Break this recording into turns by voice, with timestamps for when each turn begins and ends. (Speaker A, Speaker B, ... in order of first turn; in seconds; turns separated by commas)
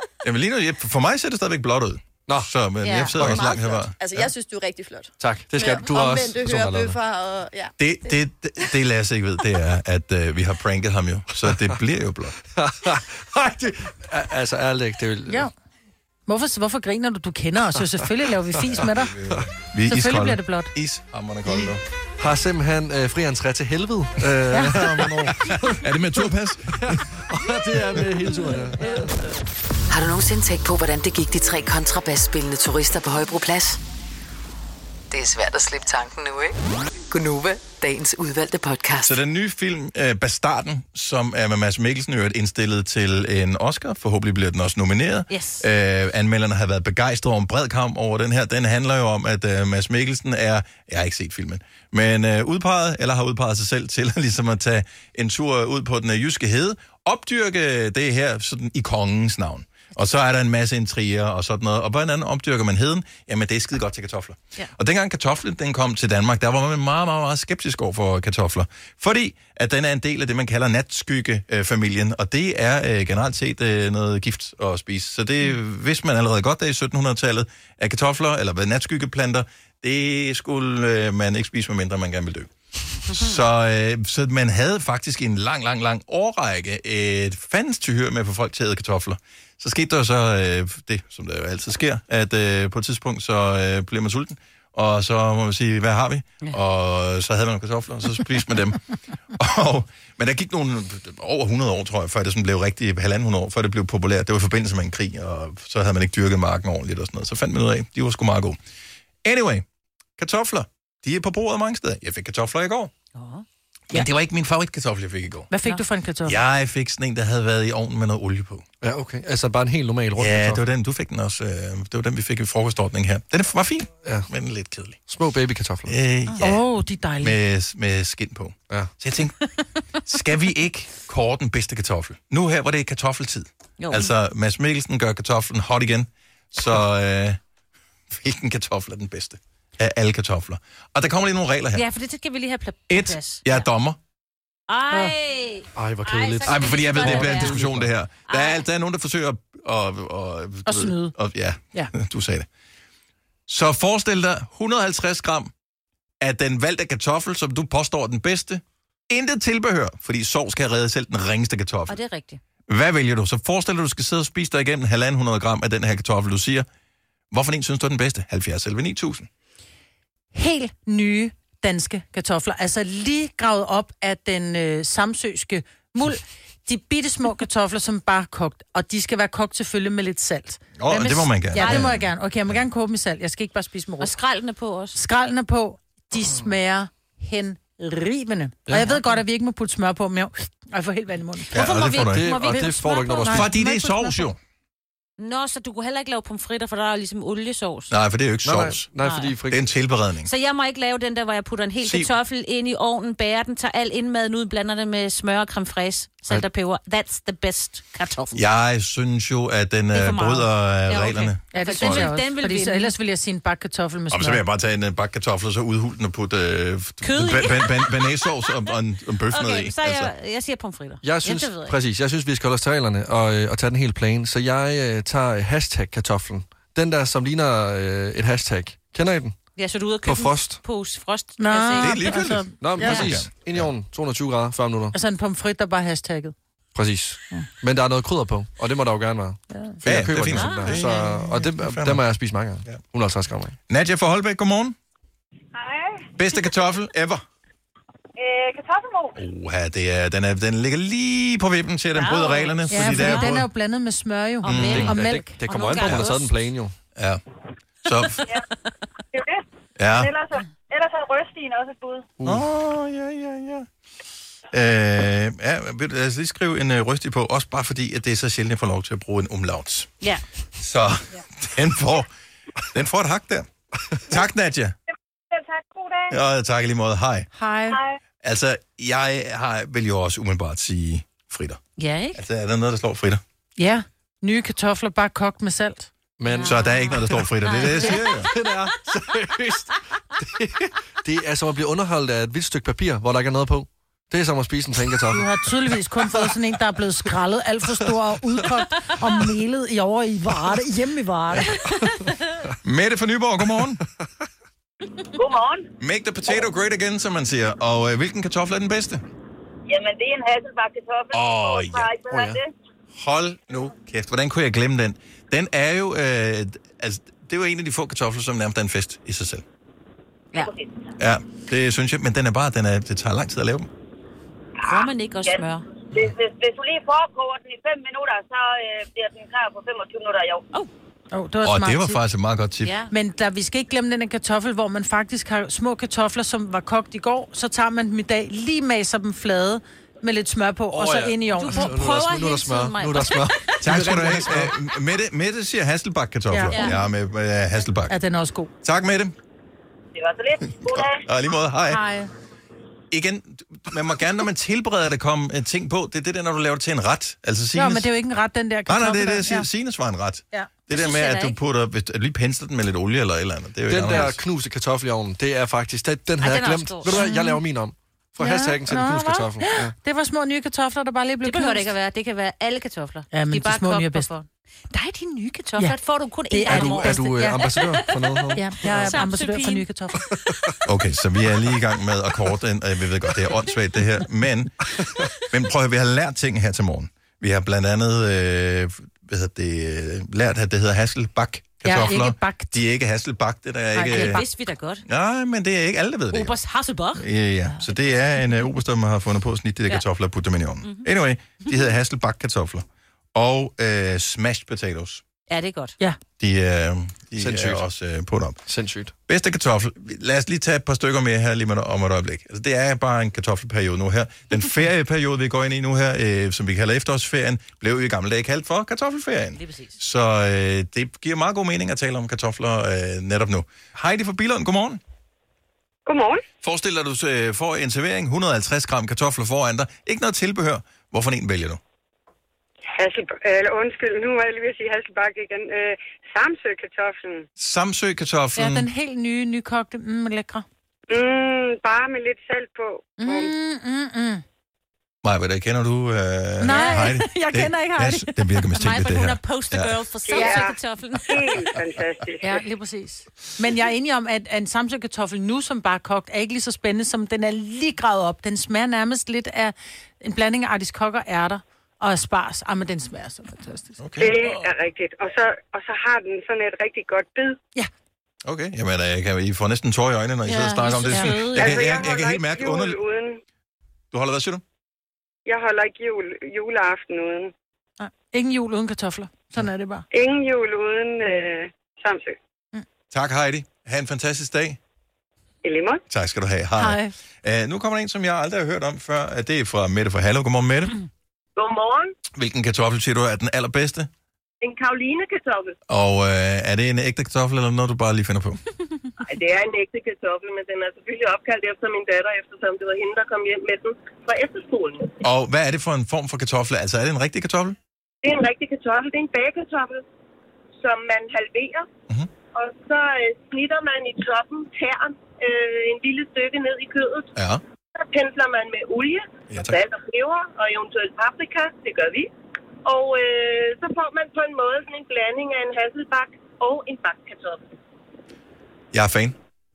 Speaker A: 0.2-4.0, Speaker B: 2.8-3.2, Speaker C: 3.1-8.1, Speaker D: 3.2-3.5, Speaker D: 5.2-7.0, Speaker A: 7.8-12.4, Speaker D: 12.6-15.5, Speaker E: 16.3-19.1, Speaker A: 18.7-21.8, Speaker E: 19.9-20.7, Speaker D: 21.5-25.9, Speaker E: 24.5-24.9, Speaker A: 24.8-27.2, Speaker D: 26.7-29.2, Speaker F: 29.9-33.8, Speaker F: 35.1-36.5, Speaker F: 37.1-39.2, Speaker A: 39.0-82.5, Speaker B: 45.3-45.7, Speaker A: 83.0-98.8, Speaker A: 99.3-108.6, Speaker A: 109.2-109.7, Speaker A: 110.2-112.9, Speaker B: 113.2-113.4, Speaker A: 113.9-115.5, Speaker E: 115.5-116.4, Speaker A: 116.2-118.6, Speaker D: 118.8-120.6, Speaker A: 120.2-125.0, Speaker D: 125.1-126.0, Speaker A: 125.9-126.6, Speaker E: 126.4-127.4, Speaker A: 127.2-129.4, Speaker A: 130.1-137.4, Speaker B: 133.8-134.1, Speaker A: 138.1-141.8, Speaker B: 141.8-143.7, Speaker A: 142.9-144.0, Speaker B: 144.7-147.6, Speaker D: 145.8-147.9, Speaker A: 146.4-152.5, Speaker B: 148.3-148.6, Speaker E: 150.7-151.2, Speaker A: 153.5-155.5, Speaker A: 156.2-162.0, Speaker B: 161.9-162.4, Speaker A: 162.7-166.7, Speaker A: 167.3-169.3, Speaker E: 170.3-184.1, Speaker A: 180.8-182.1, Speaker B: 181.6-181.9, Speaker B: 184.0-185.0, Speaker E: 184.9-191.6, Speaker D: 188.7-189.0, Speaker B: 191.5-193.5, Speaker A: 191.5-192.6, Speaker D: 191.7-193.5, Speaker E: 192.4-194.3, Speaker A: 193.3-194.4, Speaker B: 195.2-197.9, Speaker A: 197.9-198.9, Speaker D: 198.4-199.7, Speaker B: 199.0-199.3, Speaker A: 199.5-200.3, Speaker B: 200.2-208.4, Speaker A: 201.8-202.1, Speaker A: 208.3-212.1, Speaker B: 209.9-212.9, Speaker E: 211.5-214.4, Speaker A: 214.1-220.1, Speaker B: 217.0-218.5, Speaker B: 219.3-221.8, Speaker D: 221.0-229.4, Speaker B: 229.6-232.2, Speaker D: 230.0-230.6, Speaker E: 231.4-233.0, Speaker A: 231.8-233.7, Speaker D: 232.6-234.9, Speaker E: 234.9-236.3, Speaker D: 236.8-243.6, Speaker E: 239.5-239.8, Speaker A: 239.8-242.0, Speaker B: 240.3-240.9, Speaker A: 243.7-244.8, Speaker A: 246.2-247.2, Speaker A: 249.2-253.5, Speaker B: 252.0-253.3, Speaker E: 252.7-255.4, Speaker B: 254.4-256.3, Speaker A: 254.4-254.9, Speaker D: 254.6-256.8, Speaker A: 255.8-256.1, Speaker A: 257.0-257.2, Speaker A: 257.8-258.2, Speaker A: 259.8-260.1, Speaker G: 260.8-261.5, Speaker D: 262.2-262.5, Speaker A: 262.2-263.7, Speaker A: 264.5-269.9, Speaker A: 270.6-272.1, Speaker A: 272.7-273.5, Speaker A: 274.0-274.8, Speaker A: 276.1-277.3, Speaker E: 277.4-277.8, Speaker A: 278.2-281.6, Speaker B: 281.8-282.2, Speaker A: 282.1-283.2, Speaker E: 283.6-285.9, Speaker D: 286.2-295.3, Speaker B: 286.3-288.1, Speaker A: 286.4-288.3, Speaker E: 295.1-301.6, Speaker A: 302.6-303.8, Speaker H: 305.1-305.7, Speaker A: 305.8-309.0, Speaker H: 309.7-312.5, Speaker A: 311.1-311.9, Speaker D: 312.1-312.4, Speaker A: 312.9-319.4, Speaker H: 320.4-320.8, Speaker A: 321.0-323.7, Speaker H: 324.6-330.4, Speaker B: 324.6-325.6, Speaker E: 331.1-332.0, Speaker A: 331.4-332.8, Speaker B: 332.6-332.9, Speaker E: 332.9-341.7, Speaker D: 340.7-344.6, Speaker B: 341.4-343.9, Speaker A: 343.6-348.0, Speaker E: 346.3-346.8, Speaker B: 346.5-346.8, Speaker E: 347.9-348.5, Speaker A: 348.6-349.1, Speaker H: 350.0-351.1, Speaker A: 350.6-351.8, Speaker E: 351.7-352.1, Speaker A: 352.9-357.9, Speaker E: 357.5-359.5, Speaker A: 358.7-364.2, Speaker B: 360.7-361.4, Speaker D: 363.7-369.8, Speaker B: 366.2-367.0, Speaker E: 366.9-367.4, Speaker E: 368.2-371.7, Speaker B: 371.2-379.7, Speaker E: 373.1-374.1, Speaker E: 376.3-377.4, Speaker D: 376.5-379.0, Speaker E: 378.4-380.0, Speaker D: 380.1-380.5, Speaker A: 380.6-384.6, Speaker A: 385.2-394.2, Speaker E: 391.6-392.6, Speaker E: 393.7-394.2, Speaker B: 393.9-394.8, Speaker A: 394.9-396.4, Speaker B: 396.1-397.1, Speaker A: 396.9-405.0, Speaker B: 405.3-405.8, Speaker A: 406.2-408.4, Speaker D: 407.2-407.6, Speaker D: 408.5-408.9, Speaker A: 409.1-424.8, Speaker B: 419.4-419.7, Speaker G: 425.9-426.2, Speaker A: 426.4-431.6, Speaker G: 432.8-437.3, Speaker A: 437.4-438.7, Speaker E: 438.4-440.4, Speaker G: 440.9-443.3, Speaker E: 443.0-444.2, Speaker A: 445.0-449.8, Speaker E: 446.4-448.2, Speaker B: 446.5-447.0, Speaker B: 448.5-451.4, Speaker G: 450.1-452.4, Speaker E: 450.1-450.5, Speaker E: 452.2-463.8, Speaker A: 463.8-464.5, Speaker G: 464.0-467.4, Speaker A: 468.2-472.8, Speaker B: 470.3-471.5, Speaker E: 470.9-471.4, Speaker G: 471.4-473.2, Speaker A: 473.9-474.4, Speaker G: 475.3-477.3, Speaker E: 477.8-479.9, Speaker G: 479.9-482.2, Speaker A: 482.9-484.6, Speaker G: 485.4-485.8, Speaker A: 485.9-490.8, Speaker E: 486.6-486.9, Speaker I: 491.4-491.9, Speaker A: 492.1-493.9, Speaker I: 494.4-495.5, Speaker A: 495.7-498.4, Speaker I: 499.1-504.9, Speaker A: 505.0-507.6, Speaker I: 508.0-509.8, Speaker I: 510.6-511.6, Speaker I: 512.4-517.1, Speaker A: 517.1-517.4, Speaker I: 517.9-522.1, Speaker A: 519.3-519.6, Speaker I: 522.7-527.4, Speaker A: 528.7-529.2